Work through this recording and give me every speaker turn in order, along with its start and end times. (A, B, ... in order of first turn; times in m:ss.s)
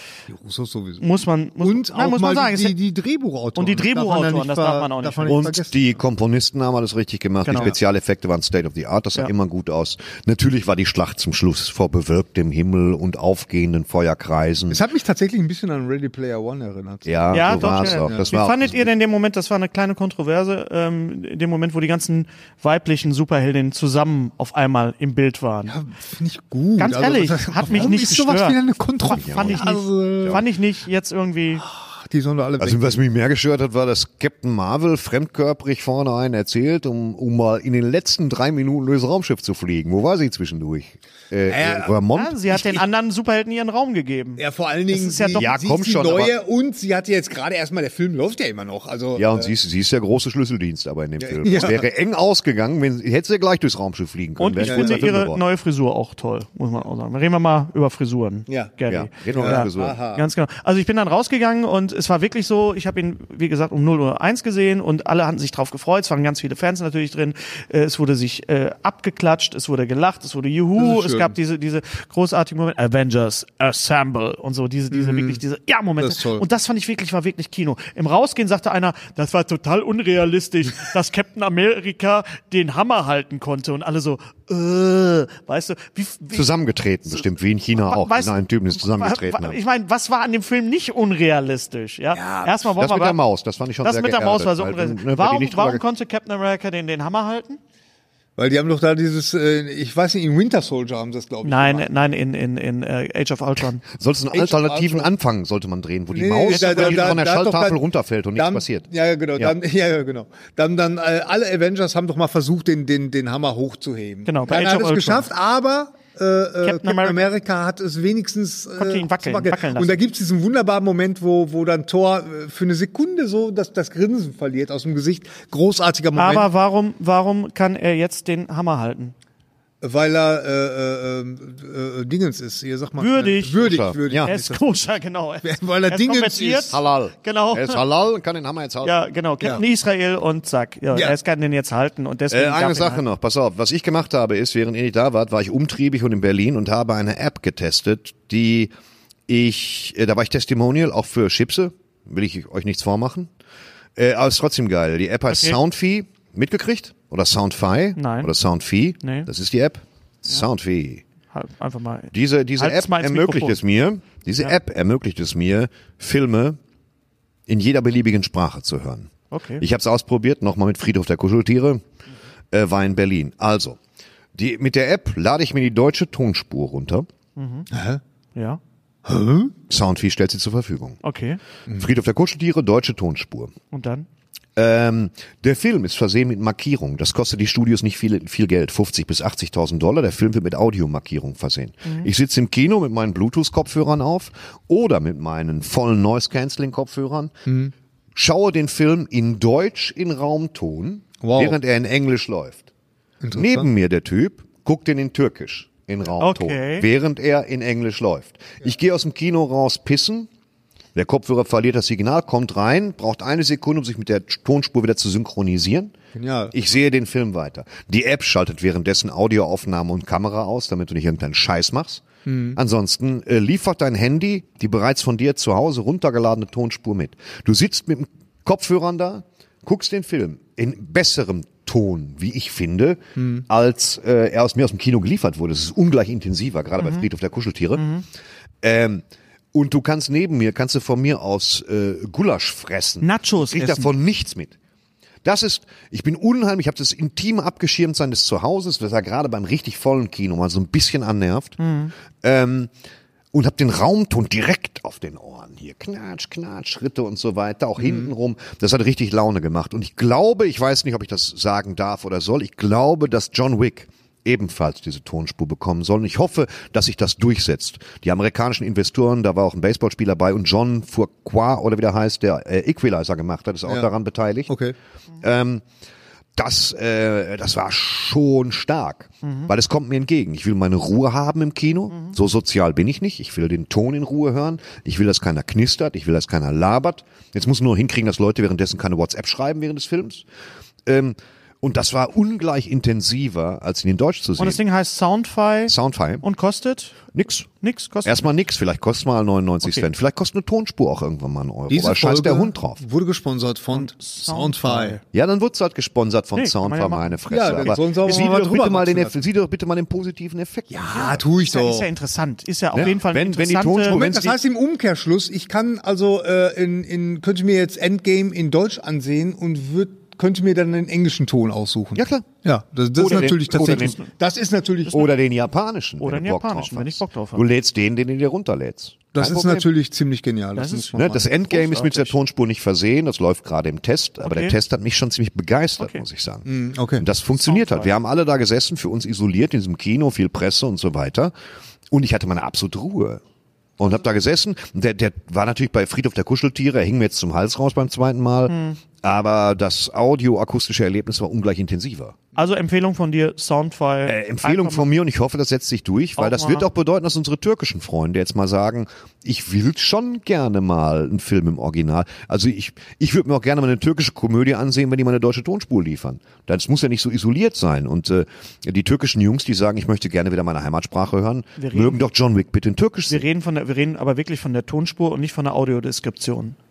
0:00.3-0:01.1 A
0:01.0-0:02.8 B
0:01.6-0:05.9 A
0:03.6-0:05.5 B
0:05.3-0:14.8 C
0:07.4-0:07.7 B
0:14.7-0:18.3 A
0:17.0-0:18.9 C
0:17.3-0:25.8 B
0:25.7-0:30.4 A
0:26.8-0:31.6 B
0:29.1-0:29.7 C
0:31.6-0:33.0 A
0:32.6-0:42.7 C
0:41.5-0:42.0 A
0:42.1-0:45.5 B
0:44.4-0:49.5 A
0:45.4-0:46.3 C
0:49.1-0:55.4 C
0:51.2-0:51.8 A
0:54.4-1:26.5 B
0:54.6-0:55.0 A
0:58.5-0:58.7 A
0:58.9-1:00.0 C
0:59.3-1:00.2 A
1:10.8-1:11.3 A
1:14.9-1:15.4 A
1:16.0-1:16.4 A
1:26.3-1:29.6 C
1:27.8-1:33.2 B
1:32.1-1:32.5 A
1:32.7-1:35.8 C
1:33.8-1:37.6 B
1:38.4-1:41.9 A
1:41.4-1:43.8 B
1:43.9-1:49.6 C
1:44.3-1:45.1 A
1:46.1-1:47.8 A
1:46.5-1:47.2 B
1:48.3-2:06.5 A
1:54.3-1:55.3 B
1:56.6-1:57.2 B
1:58.8-2:00.0 B
2:06.2-2:09.1 B
2:09.8-2:14.7 A
2:13.0-2:17.8 B
2:13.6-2:14.3 C
2:15.4-2:16.8 A
2:16.7-2:19.0 C
2:18.8-2:23.0 B
2:22.3-2:28.7 C
2:29.3-2:33.3 C
2:34.0-2:41.0 C
2:35.3-2:35.6 B
2:38.0-2:38.3 B
2:39.0-2:39.3 B
2:41.3-2:43.6 B
2:42.1-2:46.6 C
2:47.5-2:51.8 C
2:49.3-2:49.6 B
2:52.5-2:53.8 C
2:54.3-2:57.1 C
2:57.4-2:57.7 B
2:57.7-2:58.0 A
2:58.3-2:58.6 B
2:59.0-2:59.5 A
2:59.7-3:01.0 C
3:01.0-3:01.4 B
3:01.8-3:03.5 C
3:03.7-3:04.1 B
3:04.6-3:17.4 C
3:17.4-3:17.7 A
3:18.1-3:22.7 C
3:21.2-3:21.6 A
3:23.2-3:23.7 A
3:23.3-3:30.3 C
3:26.2-3:26.9 B
3:30.9-3:35.9 C
3:36.1-3:36.6 A
3:36.5-3:42.0 C
3:42.3-3:42.6 A
3:42.6-3:57.8 C
3:53.2-3:53.4 A
3:56.8-3:57.0 B
3:57.8-3:58.0 B
3:58.6-4:04.6 C
4:03.0-4:03.9 B
4:05.2-4:11.6 C
4:11.6-4:11.9 B
4:12.2-4:12.7 C
4:13.3-4:34.5 C
4:17.8-4:18.1 A
4:34.5-4:34.7 A
4:35.2-4:35.6 C
4:36.4-4:50.3 C
4:39.2-4:39.5 B
4:50.8-4:54.6 C
4:54.4-4:57.1 B
4:55.7-4:56.2 C
4:57.1-4:57.5 C
4:57.6-4:58.2 B
4:58.0-5:02.8 C
5:01.7-5:05.0 A
5:03.7-5:05.0 B
5:05.1-5:11.2 C
5:06.3-5:07.8 B
5:07.3-5:09.2 A
5:10.7-5:11.8 A
5:10.9-5:14.0 B
5:12.7-5:14.4 C
5:13.9-5:25.1 A
5:21.9-5:22.3 C
5:23.0-5:24.0 C
5:23.0-5:24.1 B
5:24.9-5:29.7 C
5:26.0-5:27.5 B
5:29.1-5:31.3 A
5:30.6-5:32.2 B
5:31.0-5:41.3 C
5:34.2-5:34.6 B
5:36.4-5:37.0 A
5:37.4-5:37.9 B
5:41.9-5:43.2 C
5:43.8-5:52.2 C
5:48.5-5:48.8 B
5:52.3-5:54.9 B
5:54.0-6:13.2 C
5:56.2-5:56.6 B
6:11.6-6:12.0 B
6:13.1-6:16.6 B